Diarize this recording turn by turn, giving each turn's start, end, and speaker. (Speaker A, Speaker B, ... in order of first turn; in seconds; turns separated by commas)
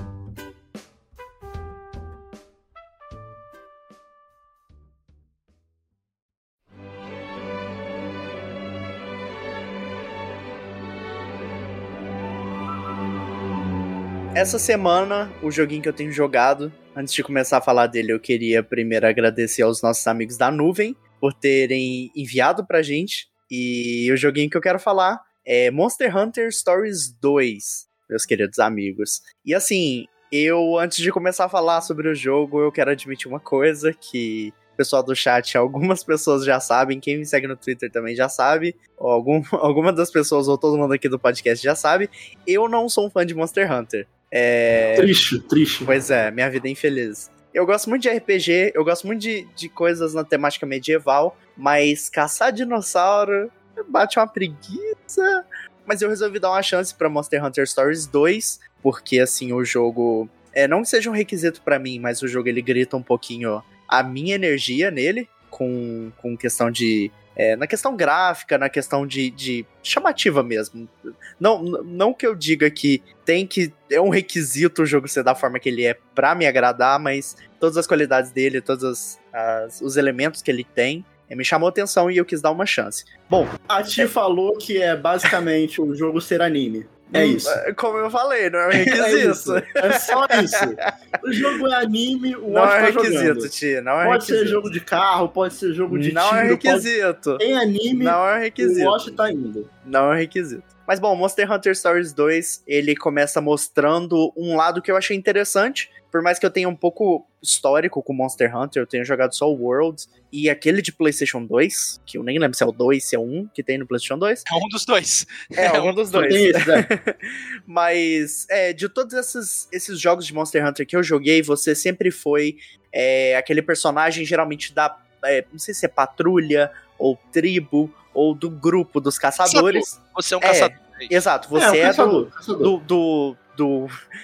Speaker A: 14.3-45.1, Speaker B: 45.0-45.9, Speaker A: 45.9-84.1, Speaker B: 83.7-87.6, Speaker A: 87.1-90.9, Speaker B: 88.7-93.5, Speaker A: 92.5-94.6, Speaker B: 94.0-99.7, Speaker A: 95.9-99.2, Speaker A: 99.8-114.5, Speaker C: 114.5-116.3, Speaker A: 115.6-133.9, Speaker B: 116.1-116.9, Speaker C: 129.5-131.2, Speaker B: 131.6-132.7